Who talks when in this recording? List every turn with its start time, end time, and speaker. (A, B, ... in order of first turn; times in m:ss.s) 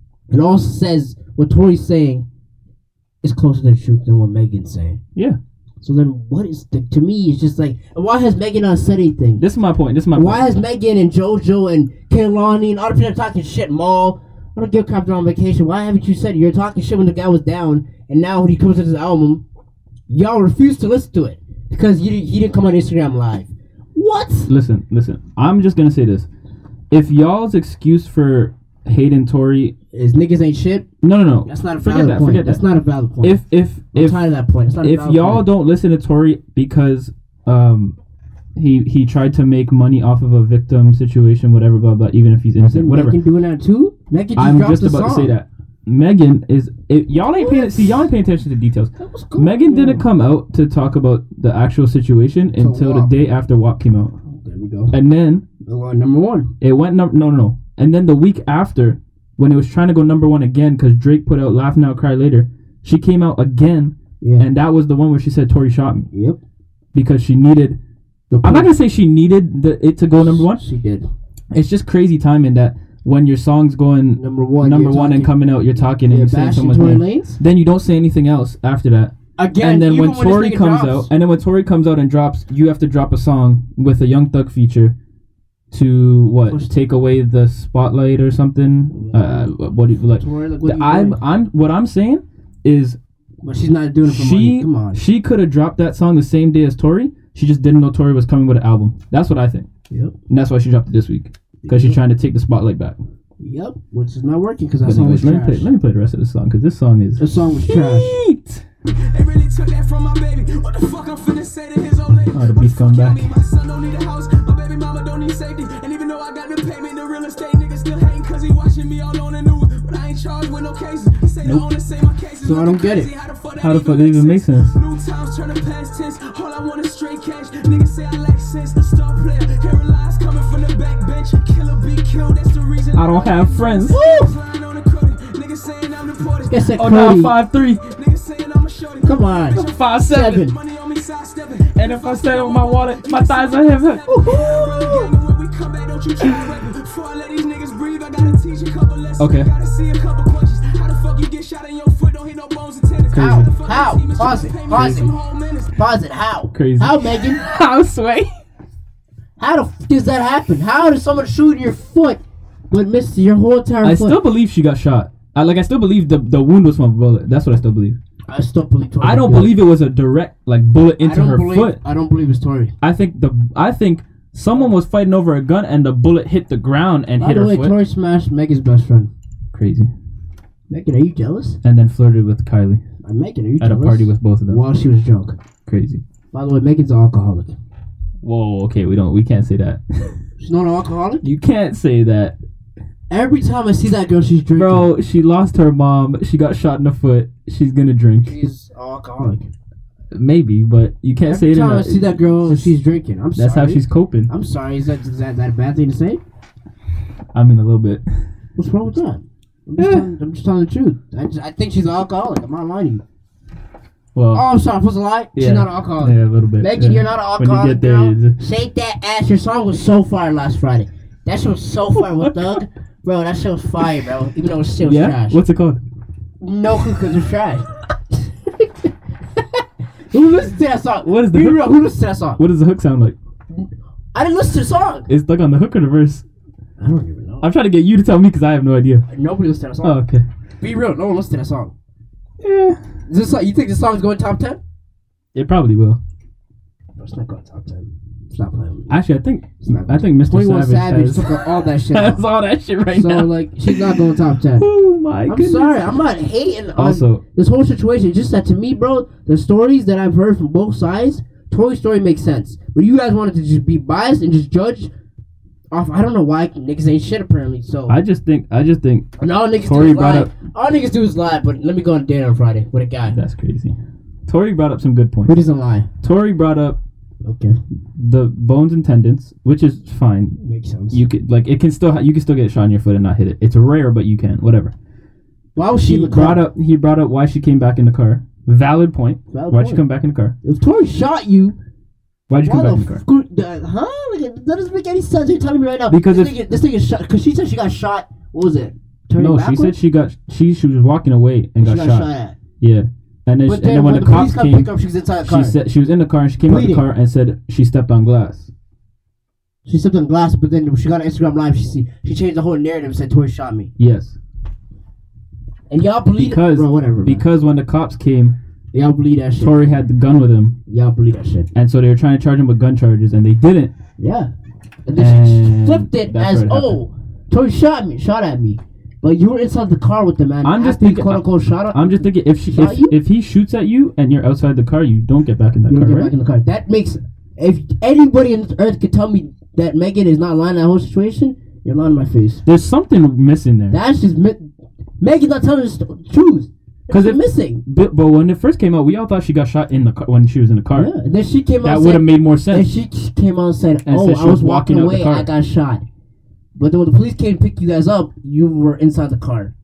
0:00.3-0:02.2 A
0:03.2-0:05.0 A
0:05.8-0:09.4 A
0:09.4-0:10.4 B
0:10.1-0:19.4 A
0:20.1-0:24.5 A
0:24.5-0:26.3 B
0:26.9-0:29.7 B
0:29.9-0:30.9 A
0:31.0-0:32.6 B
0:31.4-0:35.5 A
0:33.2-0:34.3 B
0:34.8-0:37.9 B
0:38.6-0:43.2 B
0:42.6-0:45.3 A
0:44.4-0:54.2 B
0:47.1-0:48.0 A
0:49.0-0:50.1 A
0:52.6-0:53.1 A
0:54.3-0:55.0 A
0:54.9-0:55.4 B
0:55.6-0:56.5 A
0:56.6-1:06.1 B
1:04.2-1:04.5 A
1:06.1-1:06.4 A
1:06.9-1:07.8 B
1:08.3-1:08.7 A
1:08.4-1:10.6 B
1:10.2-1:11.1 A
1:11.5-1:24.9 B
1:14.2-1:15.4 A
1:16.0-1:17.4 A
1:19.4-1:21.1 A
1:25.7-1:33.0 B
1:26.4-1:26.7 A
1:28.9-1:29.5 A
1:30.2-1:31.2 A
1:33.4-1:35.0 A
1:34.0-1:39.7 B
1:40.3-1:43.0 B
1:41.6-1:42.0 A
1:43.4-1:45.7 A
1:44.8-1:48.6 B
1:47.2-1:48.1 A
1:48.9-2:16.8 C
1:52.3-1:53.3 B
2:02.4-2:03.1 A
2:03.6-2:04.8 B
2:12.9-2:14.0 B
2:13.9-2:14.3 A
2:16.4-2:17.3 A
2:16.8-2:17.8 B
2:17.6-2:35.8 C
2:19.0-2:20.5 A
2:19.5-2:20.4 B
2:21.8-2:24.0 B
2:24.0-2:25.1 A
2:29.2-2:29.5 B
2:33.1-2:33.5 B
2:33.1-2:35.1 A
2:34.7-2:35.1 B
2:35.7-2:37.4 A
2:36.5-2:38.3 B
2:39.4-2:42.2 A
2:42.7-2:44.2 A
2:43.8-2:48.0 B
2:48.3-2:49.6 A
2:49.0-2:51.8 B
2:51.0-2:52.7 A
2:52.8-2:57.8 B
2:57.2-2:59.1 A
2:59.5-2:59.9 B
3:00.7-3:01.6 A
3:01.6-3:02.8 B
3:03.0-3:05.4 A
3:03.6-3:04.6 B
3:05.6-3:06.0 B
3:06.3-3:07.5 A
3:08.2-3:10.2 B
3:10.4-3:11.2 A
3:11.2-3:12.4 B
3:13.1-3:14.9 A
3:14.5-3:18.4 B
3:18.2-3:19.5 A
3:20.1-3:22.7 B
3:21.2-3:26.2 A
3:23.3-3:24.3 B
3:27.3-3:28.0 B
3:28.6-3:33.0 A
3:29.8-3:30.1 B
3:34.1-3:34.4 B
3:34.3-3:45.4 A
3:35.3-3:38.4 B
3:42.0-3:42.6 B
3:44.8-3:45.8 B
3:46.4-3:52.4 A
3:51.0-3:51.8 B
3:52.4-3:53.1 B
3:53.5-3:55.1 A
3:55.1-3:56.2 B
3:56.8-3:57.5 A
3:57.4-3:59.0 B
3:59.1-4:00.0 A
3:59.8-4:00.2 B
4:00.6-4:01.7 A
4:02.4-4:02.8 B
4:03.1-4:04.6 A
4:05.3-4:06.0 B
4:07.0-4:09.0 A
4:08.9-4:14.0 B
4:09.6-4:12.2 A
4:12.9-4:14.7 A
4:14.5-4:15.9 B
4:15.3-4:24.9 A
4:16.8-4:17.2 B
4:25.7-4:28.0 A
4:27.9-4:30.3 B
4:29.2-4:33.2 A
4:33.1-4:35.4 B
4:35.2-4:35.9 A
4:36.0-4:36.8 B
4:37.2-4:37.6 A
4:38.0-4:40.4 B
4:40.4-4:41.0 A
4:40.9-4:44.7 B
4:45.5-4:46.4 A
4:45.8-4:50.3 B
4:49.3-4:49.8 A
4:50.4-4:51.6 A
4:52.3-4:53.0 B
4:52.4-4:59.8 A
4:55.9-4:56.3 B
4:59.2-5:08.5 B
5:01.6-5:02.3 A
5:03.4-5:05.6 A
5:06.4-5:06.8 A
5:09.6-5:13.7 A
5:13.8-5:14.2 B
5:15.7-5:17.2 A
5:16.2-5:18.4 B
5:18.7-5:19.8 A
5:19.4-5:20.6 B
5:20.7-5:21.5 A
5:21.5-5:23.7 B
5:24.0-5:24.3 A
5:24.8-5:33.0 A
5:24.9-5:26.8 B
5:30.4-5:36.1 B
5:35.7-5:42.4 A
5:42.4-5:43.8 B
5:43.7-5:47.6 A
5:46.9-5:50.9 B
5:50.7-5:55.8 A
5:51.6-5:52.7 B
5:53.8-5:55.3 B
5:56.6-5:59.5 A